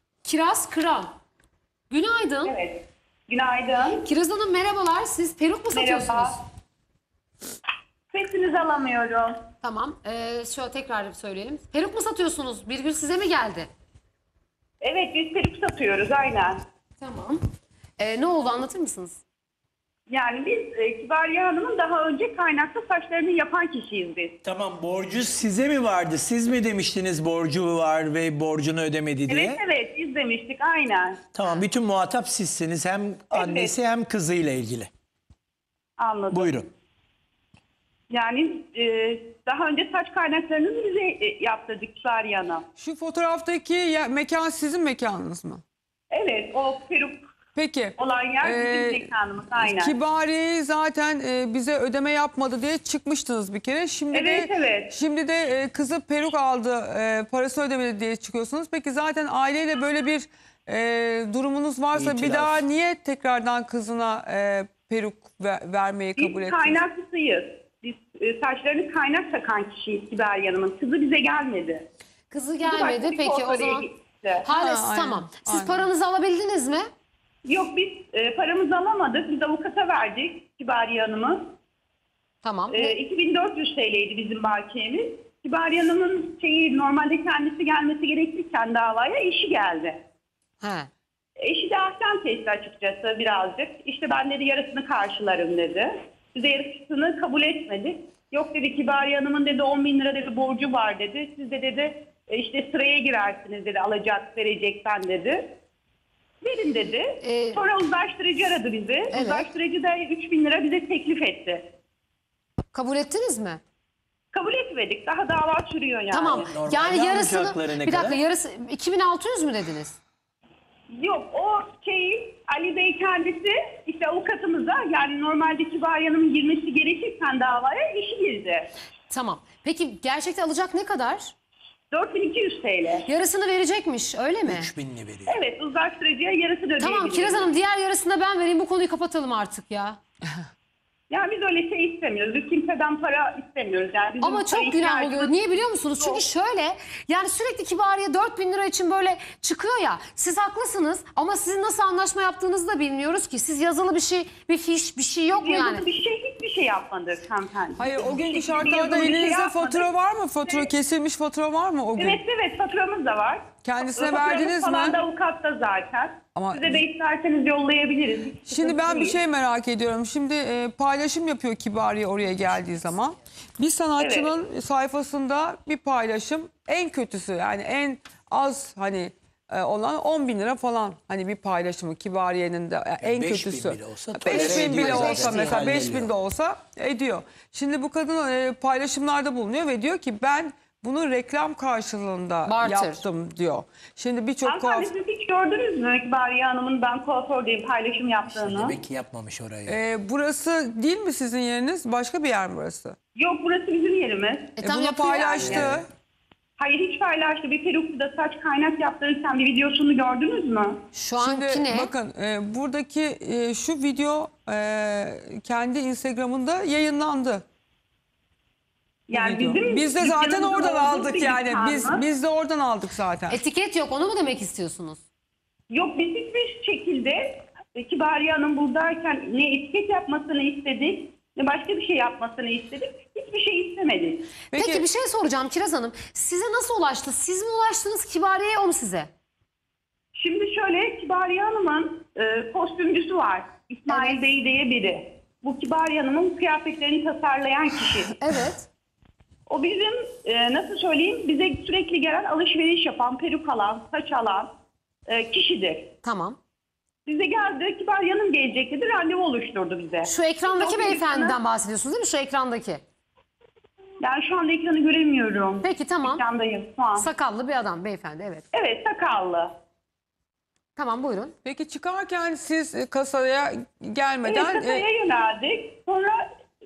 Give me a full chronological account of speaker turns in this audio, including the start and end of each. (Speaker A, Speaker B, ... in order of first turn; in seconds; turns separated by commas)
Speaker A: 0.2-1.1, Speaker A: 1.9-2.6, Speaker B: 2.5-4.0, Speaker A: 3.8-6.4, Speaker B: 5.7-6.4, Speaker B: 8.1-9.4, Speaker A: 9.6-13.7, Speaker B: 14.8-16.6, Speaker A: 17.0-17.4, Speaker A: 18.0-19.2, Speaker B: 20.1-24.4, Speaker C: 24.4-29.6, Speaker B: 29.3-31.2, Speaker C: 31.3-34.9, Speaker B: 33.3-33.7, Speaker B: 36.0-36.7, Speaker C: 36.3-36.7, Speaker B: 38.1-42.6, Speaker D: 42.8-45.6, Speaker B: 46.1-47.2, Speaker D: 47.5-66.8, Speaker B: 48.0-49.9, Speaker B: 54.1-54.9, Speaker C: 61.9-62.6, Speaker B: 66.2-71.8, Speaker A: 72.3-73.9, Speaker B: 72.7-74.5, Speaker A: 74.4-76.9, Speaker D: 74.5-75.9, Speaker B: 77.5-81.5, Speaker A: 82.4-83.0, Speaker B: 82.7-90.0, Speaker A: 90.6-90.9, Speaker B: 91.4-105.5, Speaker B: 106.4-111.7, Speaker A: 107.2-107.6, Speaker A: 109.1-109.5, Speaker A: 112.7-113.6, Speaker B: 114.3-116.5, Speaker A: 116.1-120.0, Speaker C: 116.3-118.2, Speaker B: 120.9-128.7, Speaker A: 129.1-131.3, Speaker B: 131.9-133.1, Speaker A: 133.1-134.7, Speaker C: 134.4-135.3, Speaker B: 135.3-137.6, Speaker A: 136.8-140.0, Speaker B: 141.1-145.5, Speaker A: 144.2-155.8, Speaker B: 146.0-146.2, Speaker B: 155.3-159.9, Speaker D: 157.8-162.2, Speaker B: 160.4-160.7, Speaker B: 162.0-169.2, Speaker D: 163.6-165.0, Speaker D: 166.3-166.8, Speaker D: 168.5-194.9, Speaker B: 174.0-174.3, Speaker C: 183.0-186.1, Speaker A: 184.3-185.6, Speaker A: 192.5-193.1, Speaker B: 194.4-198.8, Speaker C: 198.3-199.8, Speaker D: 199.7-203.0, Speaker B: 203.2-204.6, Speaker A: 204.6-205.7, Speaker D: 204.6-205.9, Speaker B: 205.4-205.7, Speaker B: 206.6-210.8, Speaker A: 210.9-211.9, Speaker D: 211.2-217.4, Speaker B: 219.1-222.0, Speaker D: 219.1-223.4, Speaker A: 223.3-225.0, Speaker B: 225.7-234.3, Speaker D: 234.5-234.8, Speaker A: 234.6-239.1, Speaker B: 240.2-248.2, Speaker A: 243.9-244.2, Speaker A: 248.2-248.7, Speaker B: 249.5-254.5, Speaker B: 255.1-255.9, Speaker A: 256.0-256.4, Speaker B: 257.1-261.4, Speaker A: 260.1-262.8, Speaker B: 264.0-267.1, Speaker A: 265.6-266.2, Speaker A: 267.0-268.4, Speaker B: 268.5-269.5, Speaker A: 270.8-271.4, Speaker D: 271.4-274.8, Speaker B: 274.2-276.2